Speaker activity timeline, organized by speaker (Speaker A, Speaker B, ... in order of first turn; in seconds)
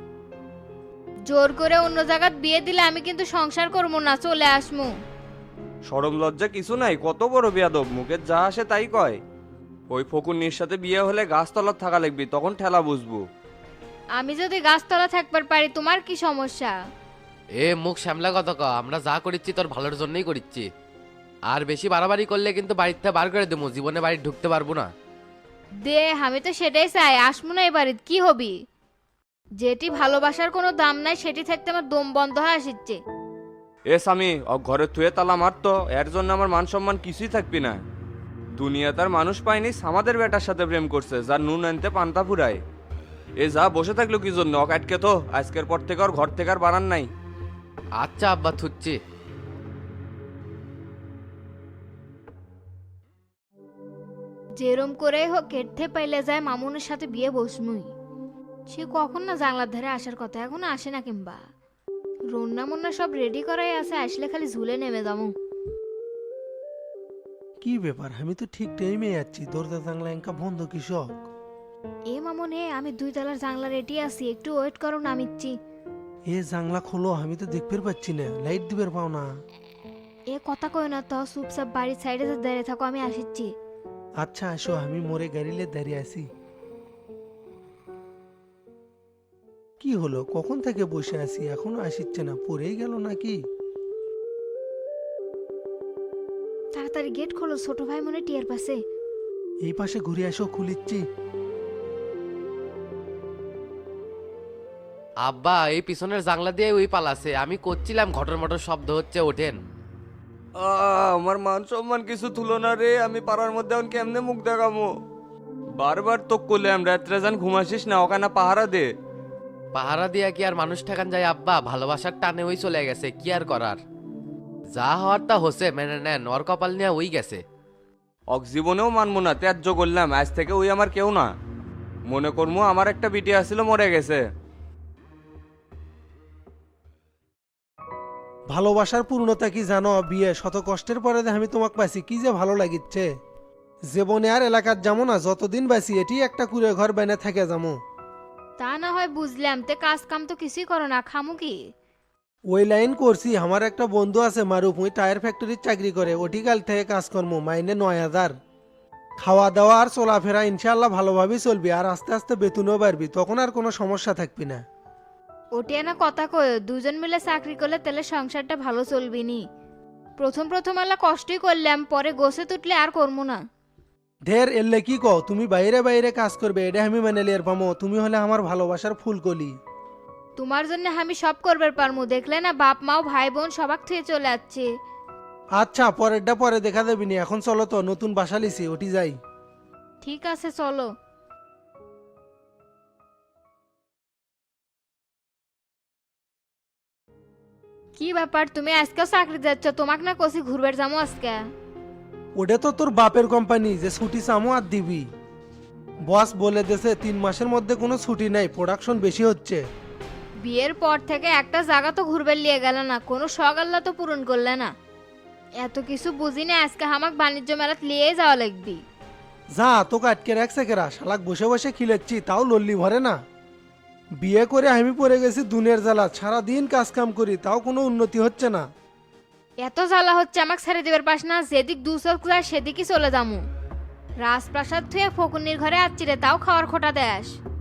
Speaker A: 1.3-4.9, 14.2-16.7, 25.8-28.5, 29.6-33.0, 54.6-57.9, 58.7-61.4, 62.3-65.3, 72.1-75.5, 80.3-83.5, 96.7-98.8, 148.6-151.6, 165.6-169.4, 170.2-173.4, 180.4-184.7, 190.0-190.9, 198.0-201.4, 210.4-214.7, 215.6-218.8, 229.6-233.4, 234.2-237.4
Speaker B: 5.9-9.2, 9.9-13.2, 33.9-37.8, 38.6-42.6, 43.4-47.1, 110.6-114.9, 115.8-118.9, 128.3-131.3, 132.1-134.2
Speaker C: 17.6-20.7, 21.5-24.9, 48.0-49.0, 105.2-109.6, 119.7-123.8, 124.7-127.4
Speaker D: 67.6-71.1, 76.3-79.2, 84.2-86.3, 89.8-93.4, 99.7-101.0, 138.5-143.1, 143.9-147.8, 152.5-158.3, 159.2-164.6, 174.3-179.5, 185.6-189.2, 202.4-205.0, 206.1-209.6, 219.6-223.2, 224.2-228.7